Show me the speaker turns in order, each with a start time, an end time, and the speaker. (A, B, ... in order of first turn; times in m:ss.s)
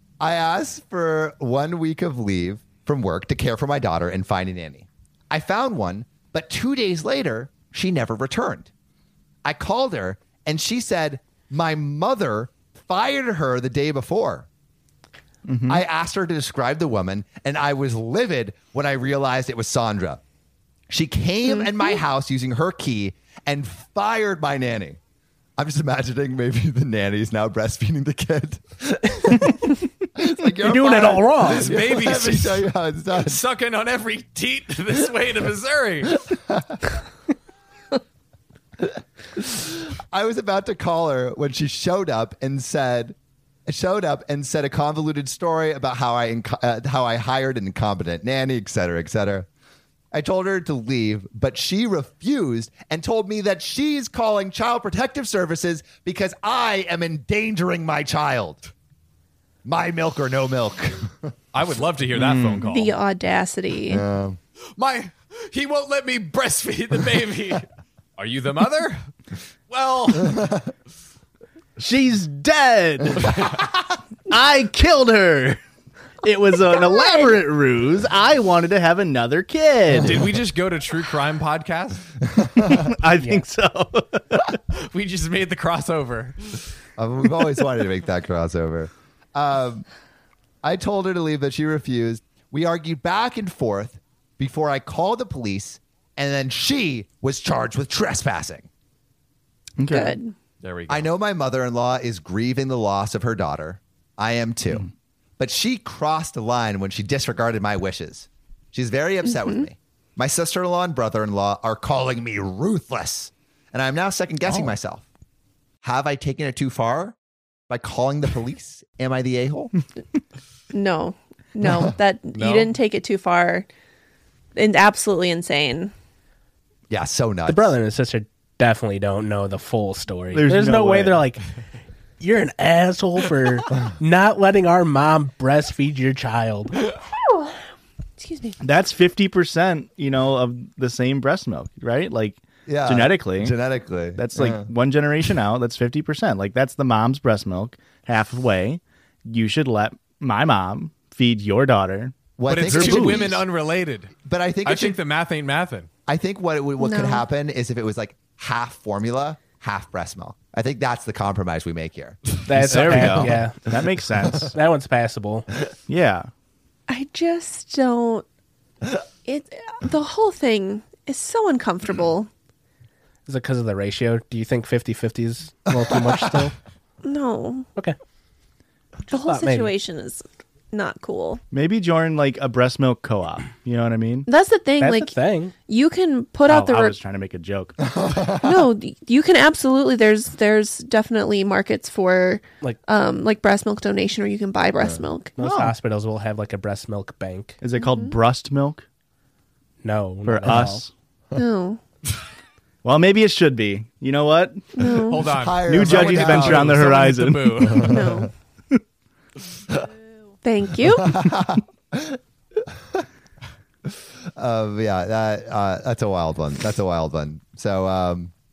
0:00.2-0:08.7 A
0:09.4-0:14.5 A
0:15.5-0:15.8 B
0:15.7-0:20.2 A
0:20.9-0:25.0 A
0:21.5-0:21.9 C
0:25.6-0:33.4 A
0:30.6-0:31.7 D
0:31.4-0:36.2 E
0:36.5-0:36.8 A
0:39.4-0:43.1 A
0:43.6-0:49.5 A
0:50.1-0:58.6 A
0:59.6-1:01.3 A
1:01.5-1:03.0 E
1:02.1-1:02.7 B
1:02.7-1:04.0 C
1:03.9-1:04.4 A
1:04.8-1:09.0 E
1:09.7-1:10.6 E
1:11.8-1:13.4 B
1:14.3-1:15.6 B
1:16.2-1:20.2 B
1:20.0-1:22.0 E
1:22.4-1:24.4 B
1:23.2-1:23.4 D
1:24.7-1:26.6 E
1:27.0-1:29.8 A
1:30.6-1:38.7 A
1:39.8-1:40.2 B
1:39.9-1:40.3 C
1:40.6-1:41.1 E
1:40.9-1:55.1 A
1:49.2-1:49.6 C
1:54.4-1:54.7 B
1:55.8-1:57.2 A
1:57.7-1:59.7 A
2:00.7-2:03.7 C
2:02.3-2:02.7 A
2:04.5-2:05.9 C
2:06.9-2:07.8 A
2:07.4-2:11.5 D
2:10.3-2:11.3 B
2:12.2-2:16.8 D
2:16.9-2:17.5 C
2:18.2-2:18.6 C
2:18.6-2:23.6 B
2:22.6-2:24.7 A
2:24.2-2:33.3 B
2:32.4-2:33.4 A
2:32.5-2:35.9 E
2:34.2-2:35.0 A
2:36.1-2:43.3 A
2:36.8-2:37.2 C
2:42.5-2:43.6 D
2:42.5-2:44.5 B
2:44.1-2:44.5 A
2:44.5-2:45.5 D
2:45.9-2:46.3 B
2:46.9-2:48.2 C
2:49.2-2:52.3 C
2:53.2-2:56.5 D
2:57.0-2:57.7 C
2:59.1-2:59.7 D
2:59.1-3:01.4 C
3:01.5-3:05.1 B
3:04.2-3:07.0 C
3:05.0-3:05.5 D
3:06.5-3:07.8 B
3:07.9-3:08.5 A
3:08.4-3:15.4 C
3:15.4-3:17.6 D
3:15.4-3:15.7 B
3:17.6-3:18.8 B
3:17.8-3:18.2 C
3:19.8-3:20.8 D
3:20.2-3:20.9 B
3:21.3-3:21.8 C
3:22.8-3:24.9 B
3:24.8-3:25.3 C
3:25.1-3:27.9 E
3:25.3-3:26.8 A
3:25.6-3:28.1 B
3:27.7-3:28.1 A
3:27.8-3:28.3 C
3:30.4-3:31.2 C
3:31.0-3:32.2 A
3:34.4-3:38.3 A